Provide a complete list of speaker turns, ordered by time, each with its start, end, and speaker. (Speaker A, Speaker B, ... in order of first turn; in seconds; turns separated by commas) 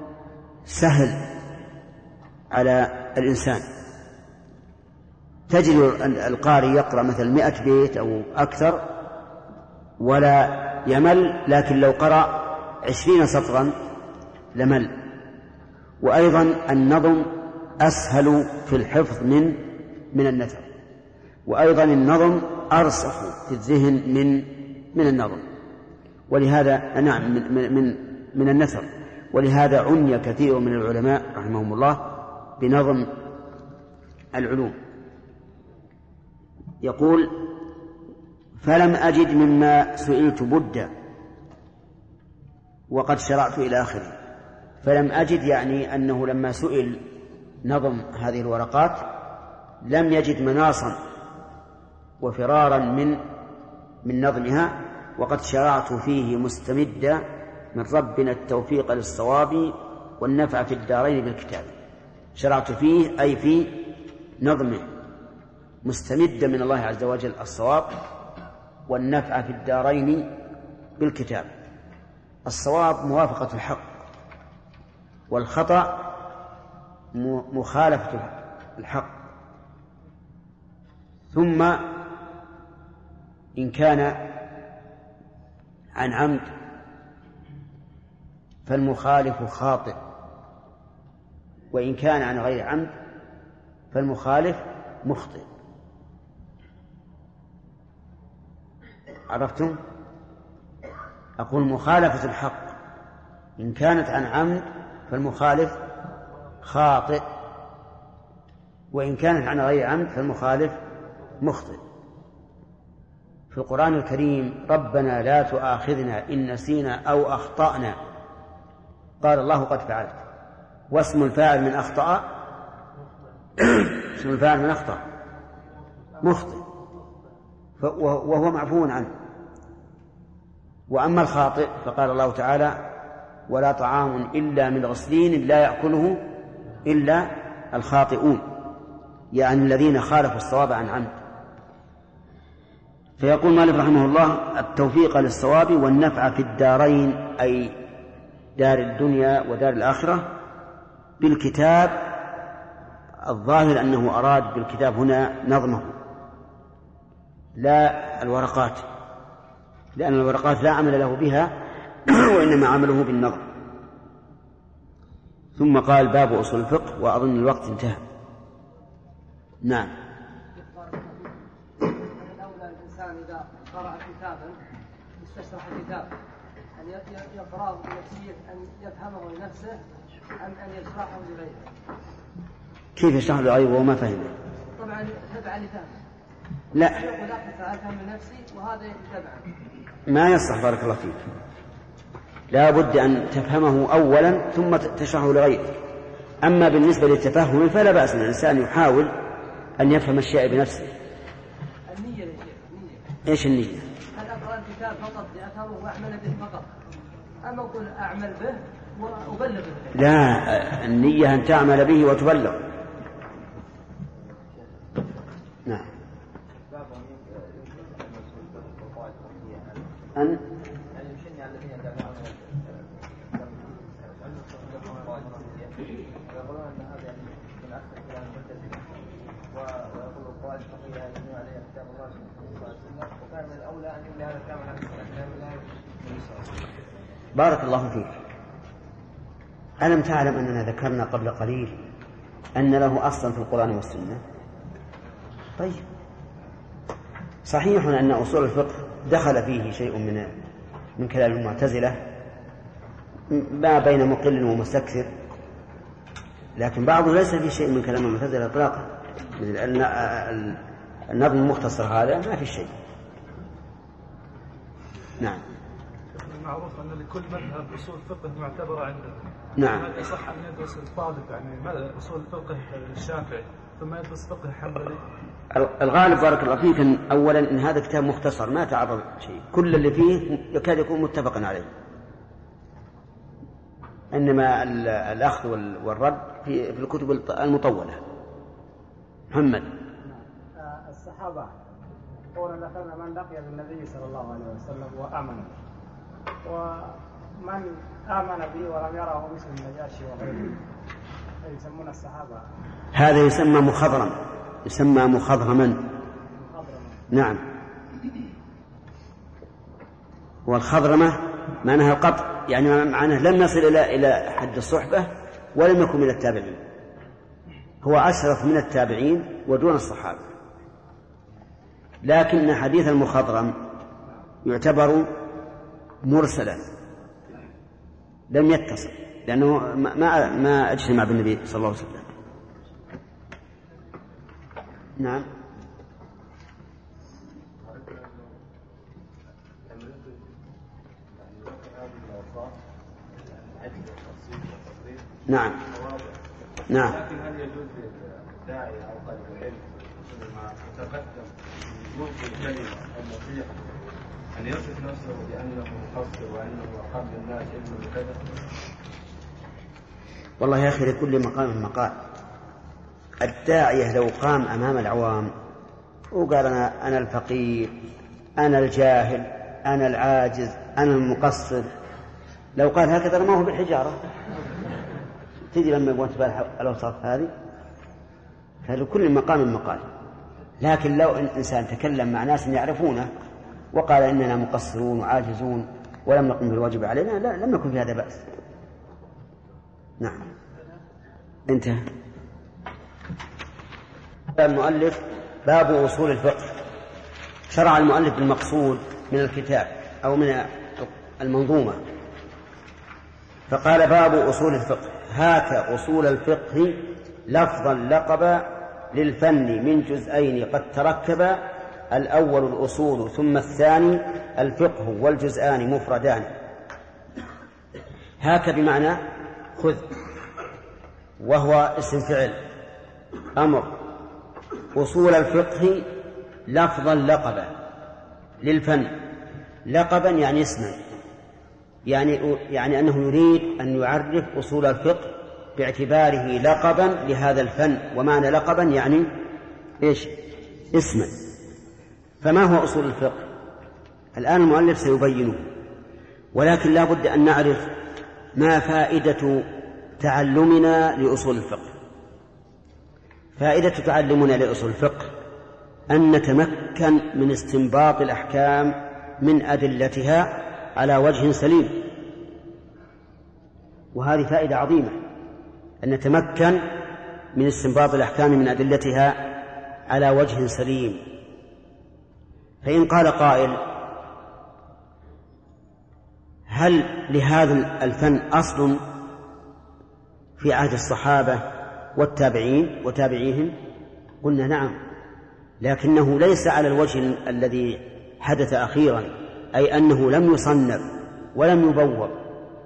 Speaker A: 0.7-1.3, Speaker A: 2.5-3.7, Speaker A: 5.5-8.9, Speaker A: 10.0-13.8, Speaker A: 14.6-15.0, Speaker A: 16.0-20.7, Speaker A: 21.5-25.4, Speaker A: 26.3-33.1, Speaker A: 34.3-34.8, Speaker A: 36.8-37.5, Speaker A: 38.6-40.9, Speaker A: 42.9-44.1, Speaker A: 44.8-47.0, Speaker A: 47.6-49.1, Speaker A: 49.9-51.0, Speaker A: 52.2-53.2, Speaker A: 54.0-57.2, Speaker A: 57.7-61.7, Speaker A: 62.4-63.8, Speaker A: 64.4-64.9, Speaker A: 65.8-67.9, Speaker A: 68.9-70.3, Speaker A: 71.0-71.5, Speaker A: 72.5-73.9, Speaker A: 75.3-76.0, Speaker A: 77.1-79.1, Speaker A: 81.3-81.9, Speaker A: 83.6-84.2, Speaker A: 86.0-86.5, Speaker A: 88.7-90.0, Speaker A: 91.7-92.9, Speaker A: 93.9-95.5, Speaker A: 99.3-99.8, Speaker A: 101.4-102.7, Speaker A: 103.6-105.8, Speaker A: 106.6-107.2, Speaker A: 108.9-110.8, Speaker A: 111.4-111.8, Speaker A: 113.5-118.0, Speaker A: 119.2-120.2, Speaker A: 120.9-122.3, Speaker A: 123.6-125.0, Speaker A: 126.2-126.6, Speaker A: 127.8-129.1, Speaker A: 130.9-132.8, Speaker A: 133.5-136.2, Speaker A: 136.8-138.5, Speaker A: 139.3-141.1, Speaker A: 143.2-147.8, Speaker A: 148.6-150.3, Speaker A: 151.2-152.1, Speaker A: 153.2-156.0, Speaker A: 157.6-158.8, Speaker A: 160.0-163.5, Speaker A: 165.6-168.0, Speaker A: 169.6-169.9, Speaker B: 170.6-174.6, Speaker B: 175.2-176.1, Speaker B: 176.8-179.8, Speaker B: 180.4-181.7, Speaker A: 183.0-184.3, Speaker B: 184.8-186.0, Speaker A: 186.7-187.0, Speaker B: 186.9-189.6, Speaker A: 190.1-191.2, Speaker A: 192.5-195.8, Speaker A: 196.4-199.1, Speaker A: 199.8-200.9, Speaker B: 201.9-203.0, Speaker A: 203.3-203.9, Speaker B: 204.1-206.7, Speaker B: 207.4-210.0, Speaker A: 209.9-212.6, Speaker C: 216.7-219.9, Speaker A: 220.2-220.4, Speaker C: 220.9-228.9, Speaker C: 229.5-236.5, Speaker A: 237.3-238.2, Speaker A: 239.8-241.8, Speaker A: 242.6-244.2, Speaker A: 245.6-245.8, Speaker A: 247.4-250.3, Speaker A: 251.0-252.0, Speaker A: 253.3-255.1, Speaker A: 256.6-260.6, Speaker A: 261.1-262.7, Speaker D: 266.1-275.0, Speaker A: 269.6-269.9, Speaker A: 275.5-281.7, Speaker A: 284.1-288.0, Speaker A: 289.3-289.7, Speaker E: 290.6-291.6, Speaker E: 292.4-295.5, Speaker E: 296.4-300.6, Speaker E: 301.4-302.4, Speaker A: 302.9-305.9, Speaker E: 306.5-307.0, Speaker A: 307.1-307.4, Speaker A: 310.5-316.6, Speaker A: 317.8-320.2, Speaker A: 322.0-323.6, Speaker A: 324.4-325.1, Speaker A: 326.0-326.6, Speaker A: 328.3-332.1, Speaker A: 335.0-335.3, Speaker C: 337.6-338.4, Speaker C: 339.7-340.3, Speaker C: 341.1-342.6, Speaker C: 343.2-345.1, Speaker A: 345.3-345.6, Speaker C: 345.7-346.1, Speaker A: 346.7-347.0, Speaker C: 346.8-353.8, Speaker C: 354.3-358.2, Speaker A: 360.4-362.0, Speaker A: 363.2-365.3, Speaker A: 366.1-367.8, Speaker A: 368.4-371.7, Speaker A: 372.6-374.0, Speaker A: 375.5-377.3, Speaker A: 378.6-379.9, Speaker A: 380.6-383.1, Speaker A: 383.7-388.2, Speaker A: 390.0-390.3, Speaker A: 391.5-391.8, Speaker A: 394.3-396.6, Speaker A: 397.5-401.8, Speaker A: 403.5-416.3, Speaker A: 418.2-419.0, Speaker A: 419.6-419.9, Speaker A: 421.2-422.4, Speaker A: 423.4-423.8, Speaker A: 424.8-425.9, Speaker A: 426.5-427.5, Speaker A: 428.4-429.0, Speaker A: 429.7-430.8, Speaker A: 431.9-439.1, Speaker A: 439.8-440.1, Speaker A: 440.7-441.1, Speaker A: 442.2-443.3, Speaker A: 444.1-445.5, Speaker A: 446.3-447.7, Speaker A: 448.4-449.4, Speaker A: 450.0-451.7, Speaker A: 453.4-455.1, Speaker A: 455.9-461.9, Speaker A: 463.9-465.0, Speaker A: 465.8-466.7, Speaker A: 467.4-469.3, Speaker A: 469.9-471.0, Speaker A: 472.6-473.6, Speaker A: 476.5-478.8, Speaker A: 480.4-481.4, Speaker A: 481.9-483.6, Speaker A: 484.2-484.8, Speaker A: 485.6-492.2